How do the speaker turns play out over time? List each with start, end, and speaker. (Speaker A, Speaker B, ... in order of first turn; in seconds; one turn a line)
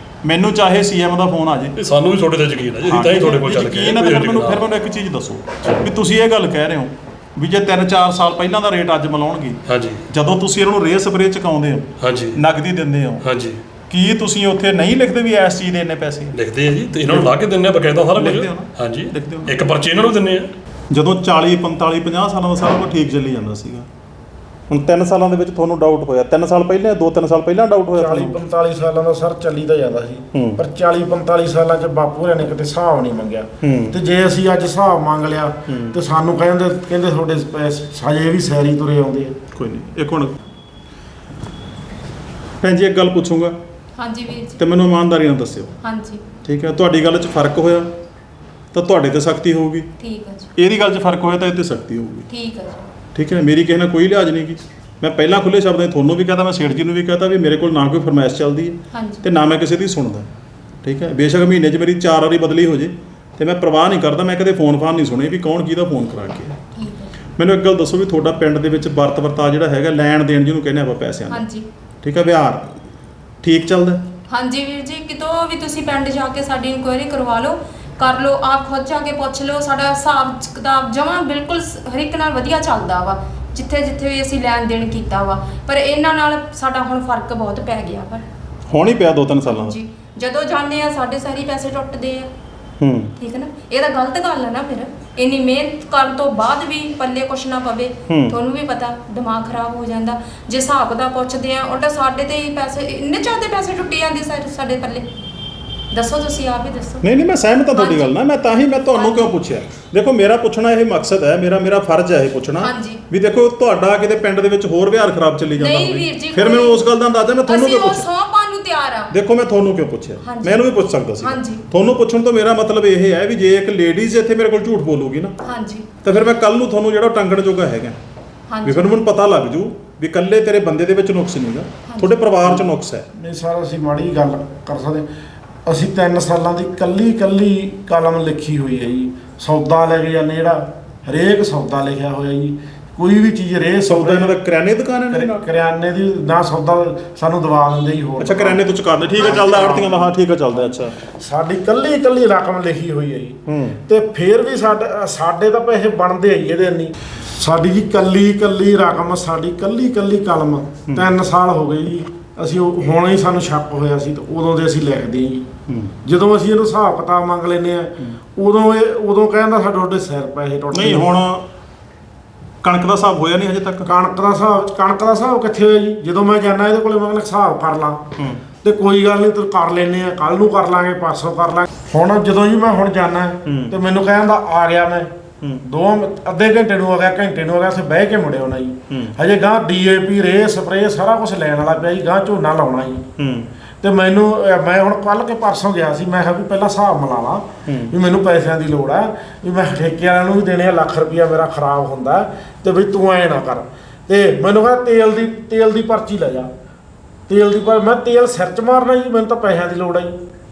Speaker A: 0.2-1.8
Speaker B: 1.8-4.6
Speaker A: 2.9-13.3
Speaker B: 9.7-10.1
Speaker B: 12.0-12.4
Speaker B: 13.2-13.6
Speaker A: 13.9-16.4
Speaker B: 16.3-20.5
Speaker A: 17.1-17.3
Speaker A: 18.2-19.5
Speaker A: 20.9-23.9
Speaker A: 24.7-28.4
Speaker C: 28.0-39.4
Speaker A: 30.3-30.6
Speaker A: 33.6-34.0
Speaker A: 35.7-36.0
Speaker A: 39.5-40.4
Speaker A: 42.6-43.6
Speaker D: 44.0-44.6
Speaker A: 44.6-45.8
Speaker D: 45.8-46.2
Speaker A: 46.5-47.9
Speaker A: 48.7-49.9
Speaker D: 50.0-50.5
Speaker A: 50.6-52.3
Speaker D: 52.3-52.9
Speaker A: 53.1-60.3
Speaker D: 58.9-59.2
Speaker A: 60.8-66.6
Speaker D: 66.8-67.1
Speaker A: 67.4-71.5
Speaker D: 71.3-71.7
Speaker A: 72.0-72.8
Speaker A: 73.4-74.1
Speaker D: 74.3-88.2
Speaker A: 88.7-89.8
Speaker D: 89.5-92.3
Speaker A: 92.8-93.1
Speaker D: 93.2-105.0
Speaker A: 98.1-98.4
Speaker D: 105.9-107.0
Speaker A: 107.0-118.1
Speaker D: 107.7-108.1
Speaker D: 108.9-109.4
Speaker D: 112.6-113.0
Speaker D: 115.6-116.8
Speaker D: 117.5-119.1
Speaker A: 119.1-125.3
Speaker D: 120.2-121.6
Speaker D: 125.4-125.9
Speaker A: 126.0-128.0
Speaker D: 128.5-129.0
Speaker A: 128.7-133.1
Speaker D: 131.9-132.2
Speaker C: 132.4-135.1
Speaker C: 135.7-144.4
Speaker A: 143.9-145.4
Speaker C: 145.1-148.6
Speaker A: 148.2-151.0
Speaker C: 149.2-150.1
Speaker C: 150.7-165.5
Speaker A: 153.5-153.8
Speaker A: 165.7-166.0
Speaker C: 166.1-171.1
Speaker A: 170.7-171.5
Speaker A: 172.6-173.9
Speaker C: 173.8-178.0
Speaker A: 178.2-178.4
Speaker C: 178.6-185.1
Speaker A: 183.5-183.8
Speaker C: 185.7-193.1
Speaker A: 188.9-189.2
Speaker A: 193.2-193.5
Speaker C: 193.8-206.5
Speaker A: 197.7-197.9
Speaker C: 207.3-210.2